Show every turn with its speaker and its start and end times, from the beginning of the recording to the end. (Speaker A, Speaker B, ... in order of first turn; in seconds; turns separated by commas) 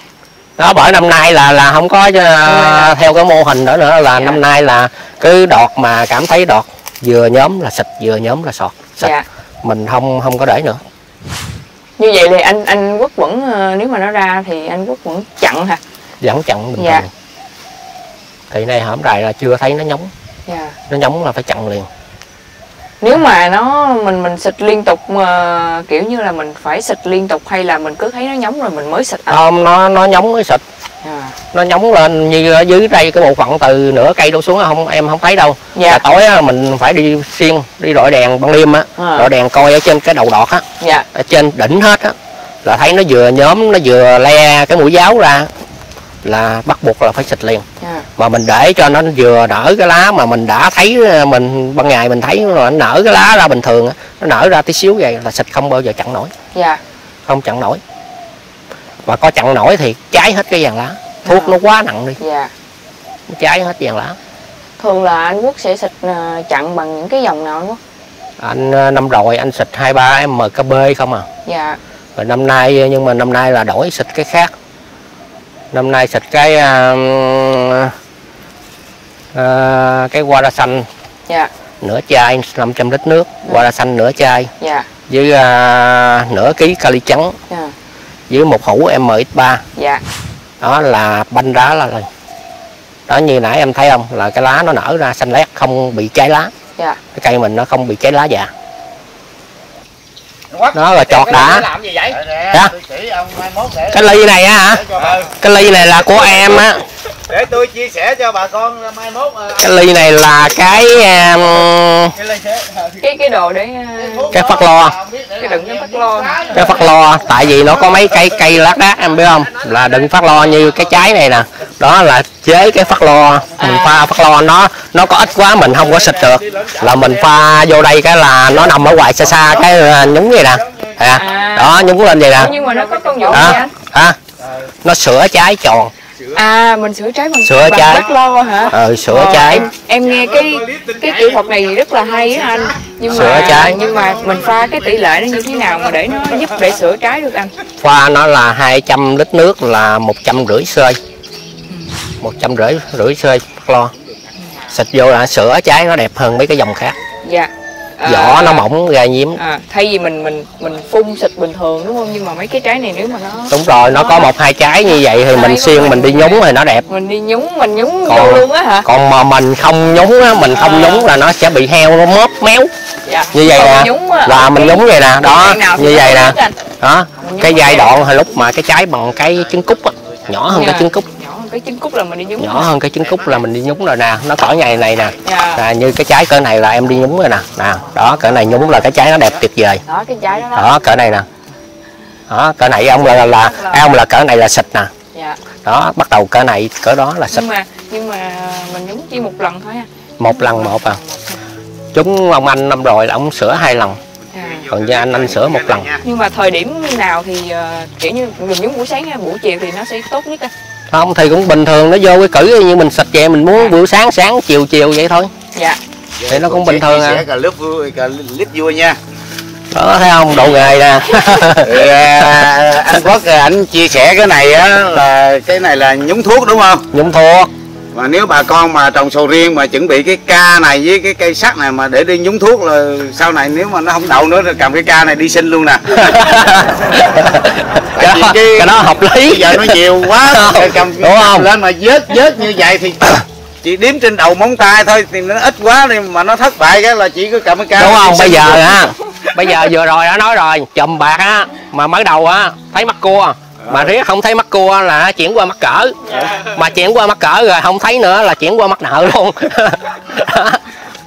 Speaker A: 0.6-10.8, Speaker B: 2.4-2.9, Speaker B: 4.1-4.4, Speaker B: 9.0-9.2, Speaker B: 12.0-15.8, Speaker A: 16.2-17.1, Speaker B: 16.8-17.1, Speaker A: 18.5-20.1, Speaker B: 20.5-20.8, Speaker A: 20.9-21.9, Speaker B: 23.0-29.4, Speaker A: 29.3-30.6, Speaker B: 31.0-31.3, Speaker A: 31.5-45.5, Speaker B: 35.7-36.0, Speaker B: 39.0-39.3, Speaker B: 40.8-41.1, Speaker A: 46.2-47.6, Speaker B: 47.8-48.1, Speaker A: 48.2-56.3, Speaker B: 56.5-56.8, Speaker A: 57.2-57.8, Speaker A: 59.0-62.2, Speaker B: 61.2-61.5, Speaker B: 62.2-62.5, Speaker A: 63.3-64.2, Speaker B: 64.8-67.8, Speaker A: 68.4-71.3, Speaker B: 71.4-71.8, Speaker A: 72.2-74.5, Speaker A: 75.7-77.9, Speaker A: 79.3-80.9, Speaker A: 81.8-84.5, Speaker B: 84.6-84.9, Speaker A: 85.1-87.3, Speaker A: 88.3-89.6, Speaker B: 89.7-90.0, Speaker A: 90.6-92.1, Speaker A: 93.1-96.5, Speaker A: 97.1-98.5, Speaker C: 100.5-104.1, Speaker A: 100.7-101.7, Speaker A: 103.9-106.8, Speaker C: 104.7-105.3, Speaker C: 107.3-109.6, Speaker A: 109.5-112.2, Speaker B: 112.9-114.3, Speaker C: 114.2-116.7, Speaker A: 114.3-115.0, Speaker B: 115.3-116.5, Speaker A: 116.5-132.5, Speaker B: 123.6-124.0, Speaker B: 131.1-133.7, Speaker A: 133.3-134.2, Speaker A: 134.8-135.9, Speaker B: 136.3-147.5, Speaker A: 137.4-138.0, Speaker A: 138.7-139.7, Speaker C: 140.2-141.1, Speaker C: 142.1-142.6, Speaker A: 143.1-143.8, Speaker C: 143.1-145.3, Speaker A: 147.8-151.0, Speaker B: 151.7-152.0, Speaker A: 152.2-153.9, Speaker A: 154.7-156.9, Speaker B: 157.2-158.7, Speaker A: 158.0-159.4, Speaker B: 159.3-168.9, Speaker A: 163.5-166.8, Speaker A: 168.0-172.7, Speaker B: 170.5-171.1, Speaker B: 173.0-176.6, Speaker A: 173.3-181.1, Speaker B: 177.2-178.2, Speaker B: 180.4-182.7, Speaker A: 182.4-189.8, Speaker B: 185.2-185.6, Speaker B: 188.2-188.4, Speaker B: 189.8-191.2, Speaker A: 190.5-191.2, Speaker A: 192.3-194.9, Speaker B: 192.8-194.0, Speaker B: 195.1-195.4, Speaker A: 195.6-197.4, Speaker B: 197.3-201.4, Speaker A: 200.2-201.0, Speaker A: 201.9-204.0, Speaker B: 204.3-204.7, Speaker C: 204.3-206.0, Speaker A: 204.7-205.9, Speaker B: 206.0-210.5, Speaker A: 210.9-215.3, Speaker B: 213.5-213.8, Speaker B: 215.5-215.8, Speaker C: 216.2-219.0, Speaker A: 216.3-217.2, Speaker A: 219.7-222.3, Speaker C: 221.6-226.9, Speaker A: 226.9-227.5, Speaker C: 227.9-236.0, Speaker A: 235.9-241.5, Speaker C: 237.9-248.8, Speaker A: 247.7-260.6, Speaker C: 253.6-253.9